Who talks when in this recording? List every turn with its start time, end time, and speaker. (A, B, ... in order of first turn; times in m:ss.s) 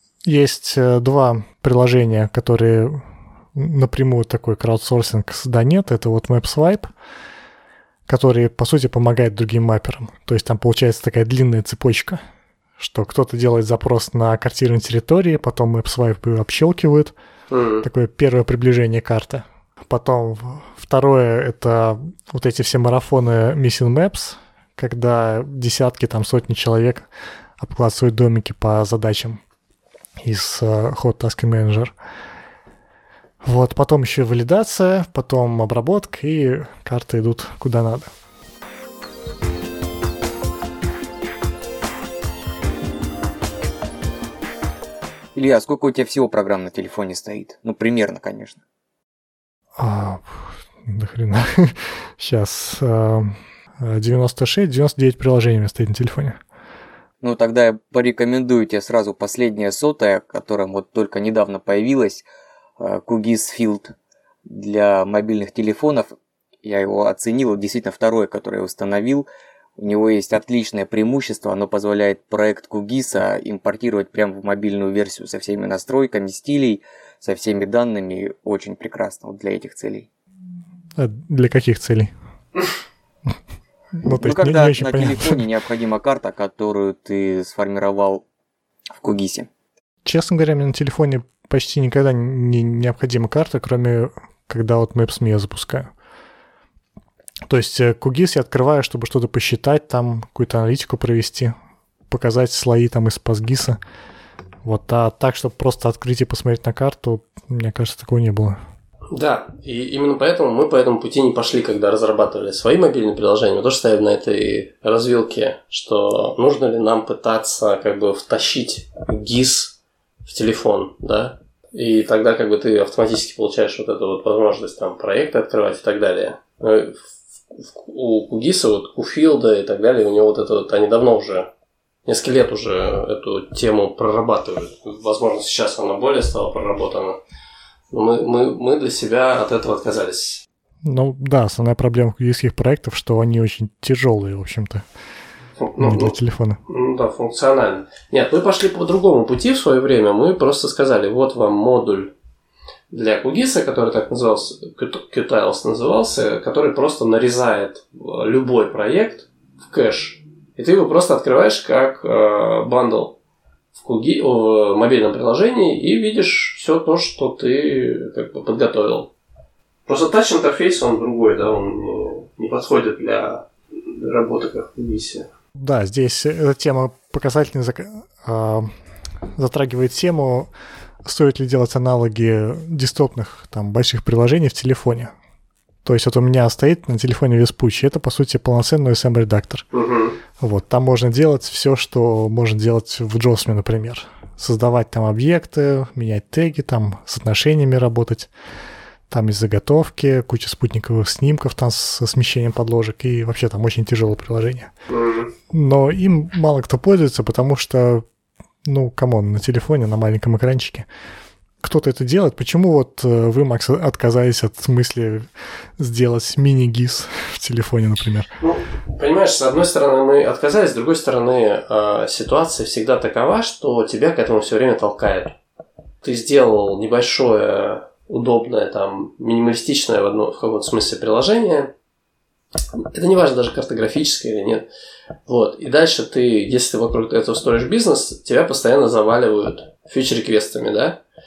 0:00.2-0:06.9 A
0:08.1-0:12.2 A
0:12.8-0:17.1 A
0:17.5-0:17.9 B
0:17.8-0:27.1 A
0:27.6-0:29.4 A
0:30.2-0:31.9 A
0:33.4-0:38.1 A
0:45.3-0:48.6 C
0:49.8-0:56.4 A
0:57.2-1:02.2 C
1:02.8-1:03.9 C
1:04.4-1:09.2 C
1:09.8-1:20.1 C
1:21.0-1:22.1 A
1:24.0-1:25.4 A
1:24.0-1:28.2 C
1:29.0-1:29.5 C
1:30.0-1:35.9 A
1:37.5-1:41.5 A
1:42.1-1:43.8 A
1:44.6-1:48.6 A
1:49.1-2:07.0 B
2:07.5-2:11.5 B
2:12.0-2:17.2 B
2:17.9-2:20.4 B
2:20.8-2:24.8 A
2:25.6-2:26.1 B
2:25.8-2:26.6 A
2:26.7-2:32.1 B
2:32.9-2:43.2 B
2:43.8-2:49.1 B
2:49.8-2:55.3 B
2:55.6-2:58.7 A
2:59.4-3:00.5 A
3:01.0-3:05.1 A
3:05.8-3:09.6 A
3:09.7-3:10.2 B
3:10.4-3:18.3 A
3:19.1-3:24.7 A
3:24.9-3:25.3 B
3:25.5-3:28.0 A
3:28.6-3:30.9 A
3:31.6-3:38.3 A
3:38.4-3:45.4 B
3:46.0-3:51.7 B
3:52.8-3:54.6 B
3:55.2-4:01.0 B